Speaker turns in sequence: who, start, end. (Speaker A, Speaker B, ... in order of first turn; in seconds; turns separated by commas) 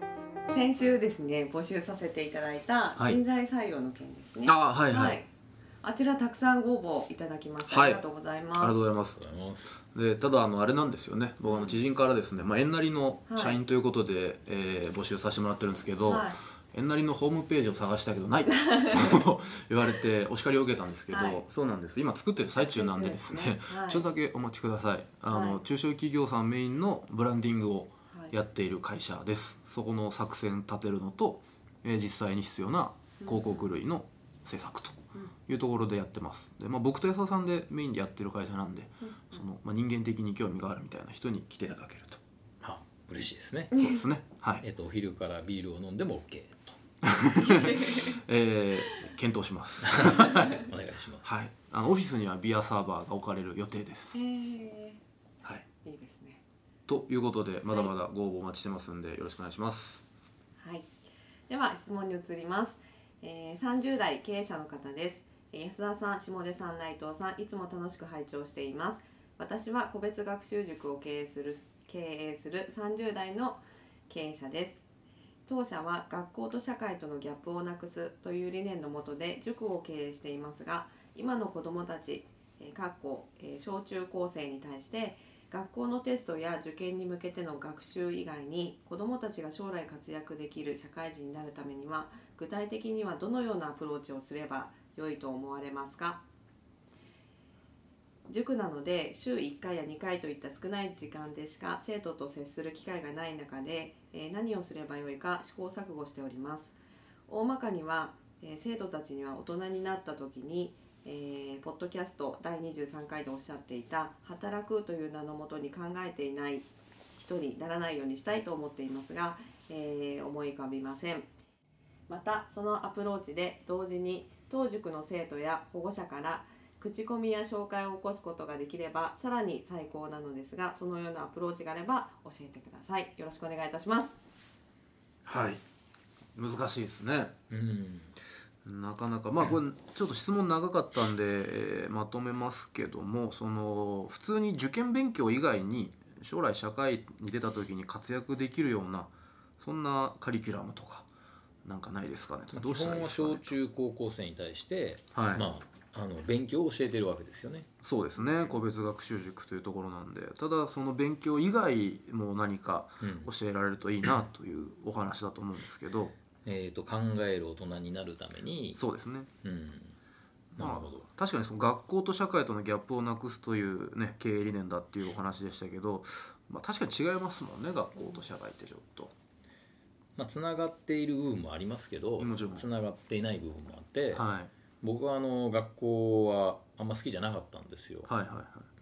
Speaker A: 0.5-5.3, Speaker B: 4.4-5.2, Speaker A: 5.8-8.8, Speaker B: 7.7-8.0, Speaker B: 8.6-9.2, Speaker C: 9.0-9.7, Speaker B: 9.9-42.2, Speaker A: 11.4-11.8, Speaker A: 13.3-13.6, Speaker A: 16.0-16.4, Speaker A: 18.4-19.2, Speaker A: 21.1-21.4, Speaker A: 22.7-24.1, Speaker A: 25.3-25.6, Speaker A: 33.2-33.7, Speaker A: 39.0-39.3, Speaker C: 42.6-43.8, Speaker B: 43.7-44.6, Speaker C: 44.6-46.8, Speaker B: 47.0-50.6, Speaker A: 47.5-48.1, Speaker C: 49.8-51.3, Speaker B: 51.2-54.2, Speaker A: 54.1-55.0, Speaker A: 55.8-56.4, Speaker B: 56.9-60.0, Speaker A: 60.6-60.9, Speaker A: 61.5-74.8, Speaker A: 75.5-96.2, Speaker A: 98.3-106.8, Speaker A: 107.3-121.3, Speaker A: 122.1-134.2, Speaker B: 135.2-135.6, Speaker B: 136.3-137.3, Speaker C: 137.5-138.1, Speaker B: 138.6-151.1, Speaker B: 151.6-153.5, Speaker C: 152.5-157.7, Speaker B: 155.1-155.5, Speaker B: 157.8-166.2, Speaker C: 163.0-163.3, Speaker C: 166.4-168.8, Speaker B: 168.7-169.3, Speaker C: 169.4-169.9, Speaker C: 170.6-171.1, Speaker B: 170.6-179.1, Speaker C: 180.2-184.3, Speaker B: 182.2-182.7, Speaker B: 184.1-184.5, Speaker C: 184.8-188.1, Speaker B: 188.1-188.7